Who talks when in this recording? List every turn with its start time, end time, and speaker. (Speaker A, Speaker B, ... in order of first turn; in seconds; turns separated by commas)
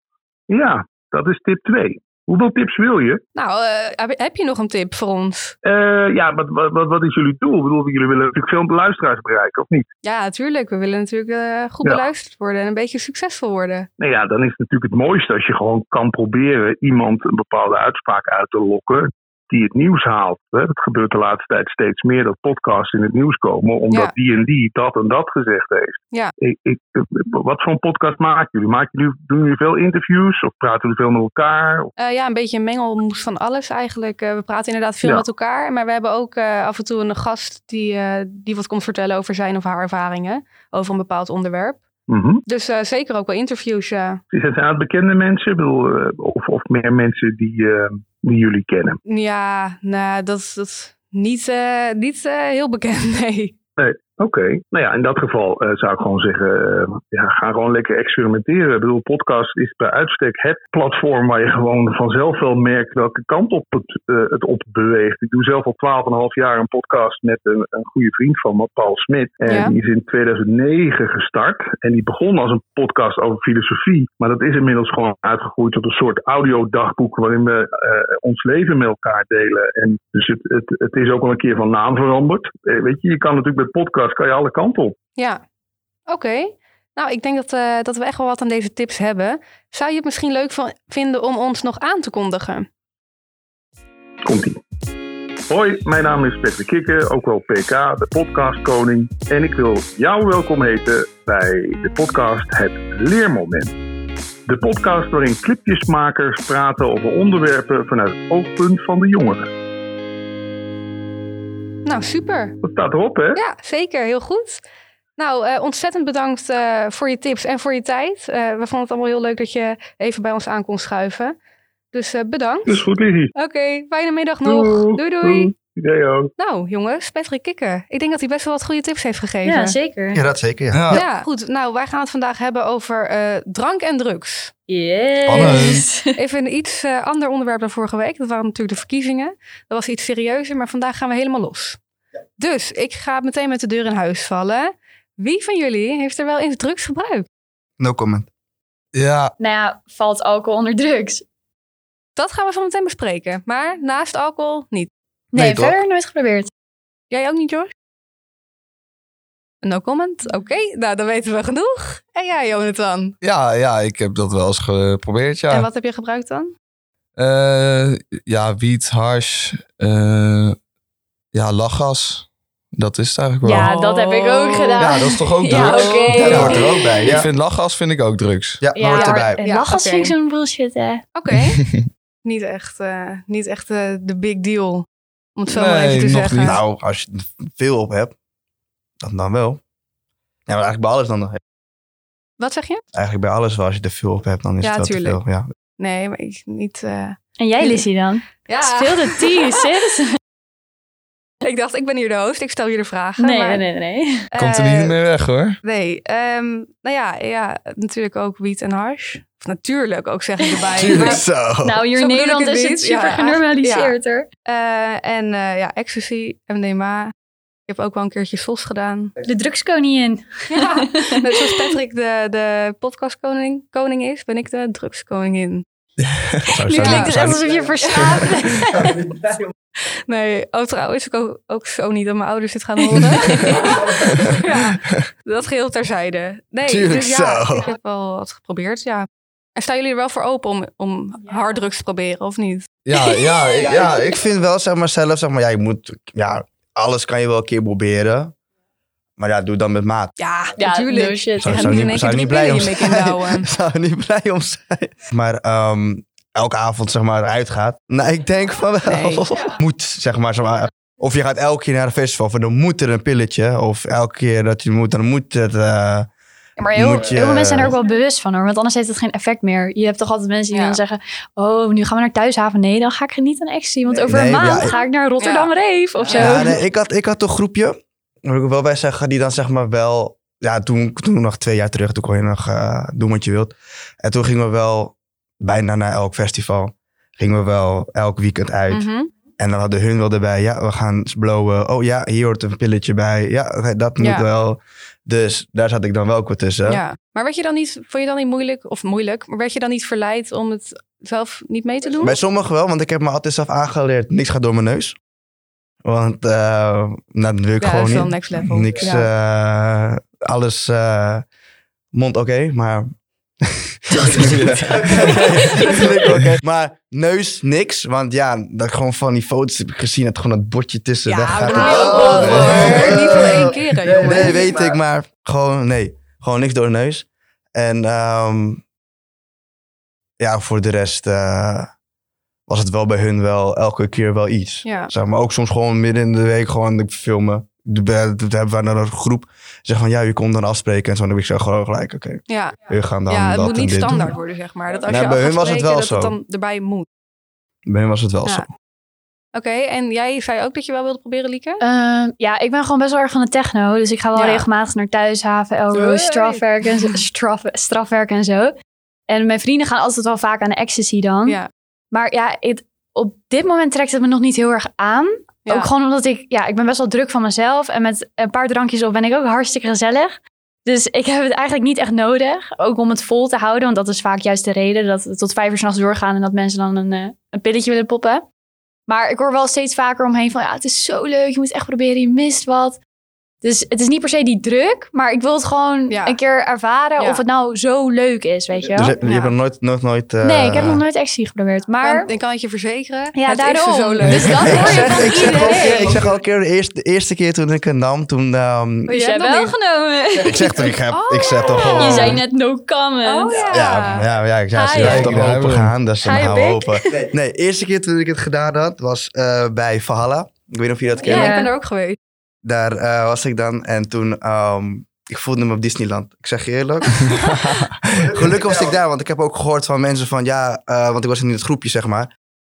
Speaker A: 0.5-3.2, Speaker B: 3.4-5.5, Speaker A: 5.7-9.9, Speaker B: 10.0-13.9, Speaker A: 14.0-31.9, Speaker B: 32.0-41.8, Speaker A: 42.1-42.4, Speaker B: 42.5-44.2, Speaker A: 44.3-49.0, Speaker B: 49.1-53.5, Speaker A: 53.8-85.0, Speaker B: 69.5-69.8, Speaker B: 85.2-85.4, Speaker B: 86.1-92.7, Speaker A: 94.2-94.6, Speaker A: 95.5-103.8, Speaker A: 104.5-109.5, Speaker B: 111.8-112.6, Speaker A: 112.6-113.4, Speaker B: 113.3-114.6, Speaker B: 115.2-121.4, Speaker B: 121.9-122.8, Speaker A: 122.7-123.3, Speaker B: 123.3-125.5, Speaker A: 124.5-126.3, Speaker B: 126.4-129.8, Speaker C: 129.4-130.2, Speaker D: 130.1-131.0, Speaker E: 130.7-131.1, Speaker B: 130.9-134.5, Speaker C: 134.7-136.2, Speaker E: 135.2-135.8, Speaker B: 136.2-141.8, Speaker B: 142.4-147.3, Speaker D: 147.8-148.3, Speaker E: 148.9-149.3, Speaker C: 149.4-151.2, Speaker B: 152.2-154.9, Speaker C: 155.3-156.5, Speaker E: 155.3-155.8, Speaker B: 157.1-157.7, Speaker B: 159.6-163.2, Speaker E: 163.2-165.7, Speaker B: 165.5-166.5, Speaker E: 167.2-170.6, Speaker E: 171.3-173.7, Speaker C: 173.4-176.8, Speaker B: 173.5-175.0, Speaker E: 174.8-178.6, Speaker B: 175.5-176.6, Speaker D: 176.2-177.3, Speaker D: 178.6-179.4, Speaker C: 178.7-181.0, Speaker B: 178.9-180.1, Speaker B: 181.2-181.6, Speaker E: 181.5-181.9, Speaker B: 182.2-186.6, Speaker E: 185.5-186.6, Speaker D: 186.4-188.1, Speaker D: 189.0-189.6, Speaker D: 190.5-191.4, Speaker B: 192.4-192.8, Speaker D: 192.9-195.5, Speaker B: 194.6-195.2, Speaker B: 195.8-197.8, Speaker C: 197.4-200.1, Speaker B: 198.5-199.7, Speaker B: 201.4-203.6, Speaker C: 203.2-204.3, Speaker B: 204.3-205.0, Speaker E: 204.4-205.6, Speaker B: 205.6-211.2, Speaker C: 210.4-214.3, Speaker D: 210.8-211.8, Speaker B: 211.9-213.9, Speaker B: 214.5-217.1, Speaker B: 217.7-219.1, Speaker C: 219.2-221.7, Speaker B: 220.5-225.7, Speaker E: 226.1-226.5, Speaker D: 226.5-227.5, Speaker C: 226.7-229.0, Speaker B: 226.8-227.2, Speaker B: 230.1-242.7, Speaker C: 232.9-233.8, Speaker D: 236.7-237.7, Speaker E: 242.8-244.2, Speaker C: 243.0-243.7, Speaker D: 243.7-248.3, Speaker D: 249.2-250.1, Speaker B: 250.2-253.5, Speaker C: 250.6-252.1, Speaker D: 251.4-266.1, Speaker B: 258.9-259.3, Speaker C: 266.6-276.6, Speaker D: 266.7-267.8, Speaker B: 270.5-270.8, Speaker D: 274.1-274.8, Speaker B: 275.2-276.5, Speaker D: 276.1-296.8, Speaker B: 288.7-289.1, Speaker B: 294.0-294.3, Speaker B: 296.7-302.2, Speaker D: 302.0-305.0, Speaker D: 305.8-311.3, Speaker B: 307.6-309.1, Speaker D: 311.9-312.9, Speaker D: 313.4-328.6, Speaker E: 314.1-315.2, Speaker B: 321.1-324.7, Speaker C: 321.4-323.2, Speaker D: 330.2-331.7, Speaker D: 332.5-344.1, Speaker B: 334.6-334.9, Speaker B: 342.3-346.9, Speaker D: 344.8-346.2, Speaker D: 347.7-348.5, Speaker B: 349.4-351.6, Speaker C: 351.6-358.5, Speaker B: 354.1-354.5, Speaker B: 355.7-356.9, Speaker C: 359.1-361.4, Speaker C: 361.9-378.2, Speaker C: 378.9-382.8, Speaker C: 383.4-389.0, Speaker B: 385.9-386.2, Speaker B: 387.0-387.2, Speaker D: 388.8-390.8, Speaker B: 389.0-389.3, Speaker C: 390.2-392.1, Speaker B: 391.8-396.0, Speaker C: 393.1-396.0, Speaker D: 394.3-398.9, Speaker B: 398.9-399.6, Speaker C: 398.9-400.8, Speaker D: 400.2-402.2, Speaker B: 400.9-402.2, Speaker C: 401.5-403.4, Speaker B: 403.1-404.1, Speaker D: 403.5-411.4, Speaker C: 404.5-405.2, Speaker E: 404.8-405.7, Speaker C: 406.0-406.9, Speaker B: 411.0-412.0, Speaker C: 411.1-411.5, Speaker D: 412.4-417.2, Speaker E: 417.1-418.3, Speaker D: 418.0-422.1